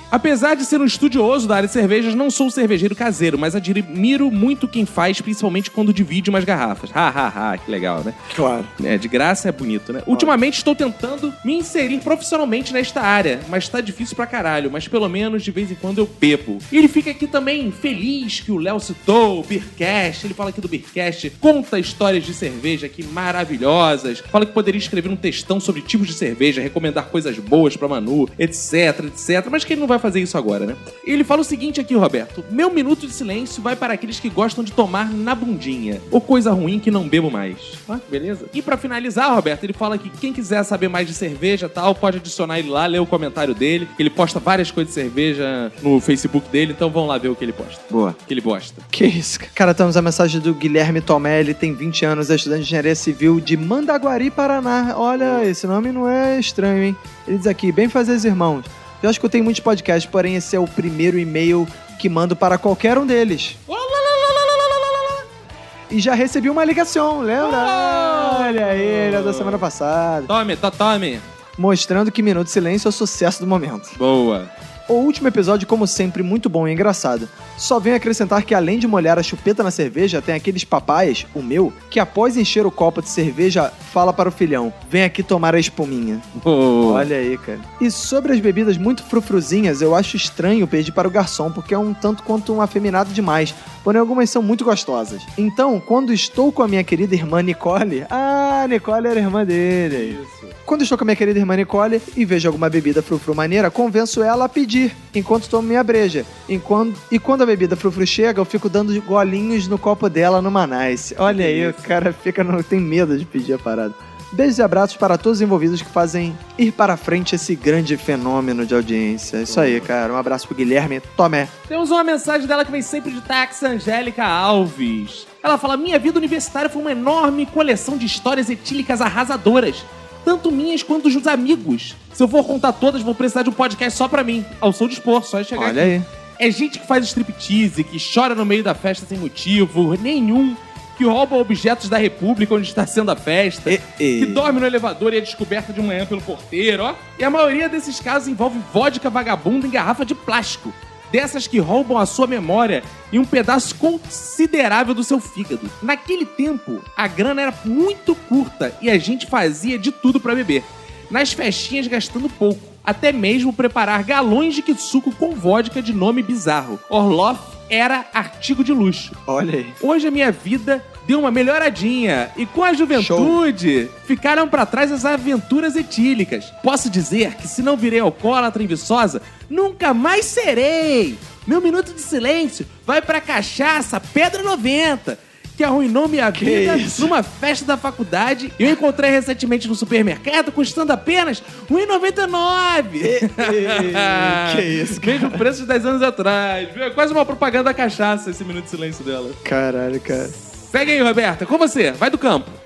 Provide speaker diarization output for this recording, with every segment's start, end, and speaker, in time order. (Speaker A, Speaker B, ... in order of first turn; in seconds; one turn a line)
Speaker A: 0.1-8.2
Speaker B: 8.3-8.7
Speaker A: 8.8-48.8
Speaker B: 47.9-48.2
Speaker B: 48.9-63.6
Speaker A: 55.2-55.5
Speaker A: 63.7-65.2
Speaker B: 65.9-70.3
Speaker A: 67.4-69.7
Speaker A: 70.3-71.2
Speaker B: 71.6-73.9
Speaker A: 74.0-74.5
Speaker B: 74.9-86.2
Speaker A: 86.3-87.1
Speaker B: 86.8-121.5
Speaker A: 99.9-100.5
Speaker A: 111.3-112.0
Speaker A: 119.5-119.9
Speaker A: 121.7-169.2
Speaker B: 135.6-136.1
Speaker B: 143.7-144.4
Speaker B: 169.3-169.8
Speaker A: 169.8-199.4
Speaker B: 172.9-173.4
Speaker B: 186.3-187.1
Speaker B: 193.0-195.4
Speaker B: 199.4-200.3
Speaker A: 200.3-202.6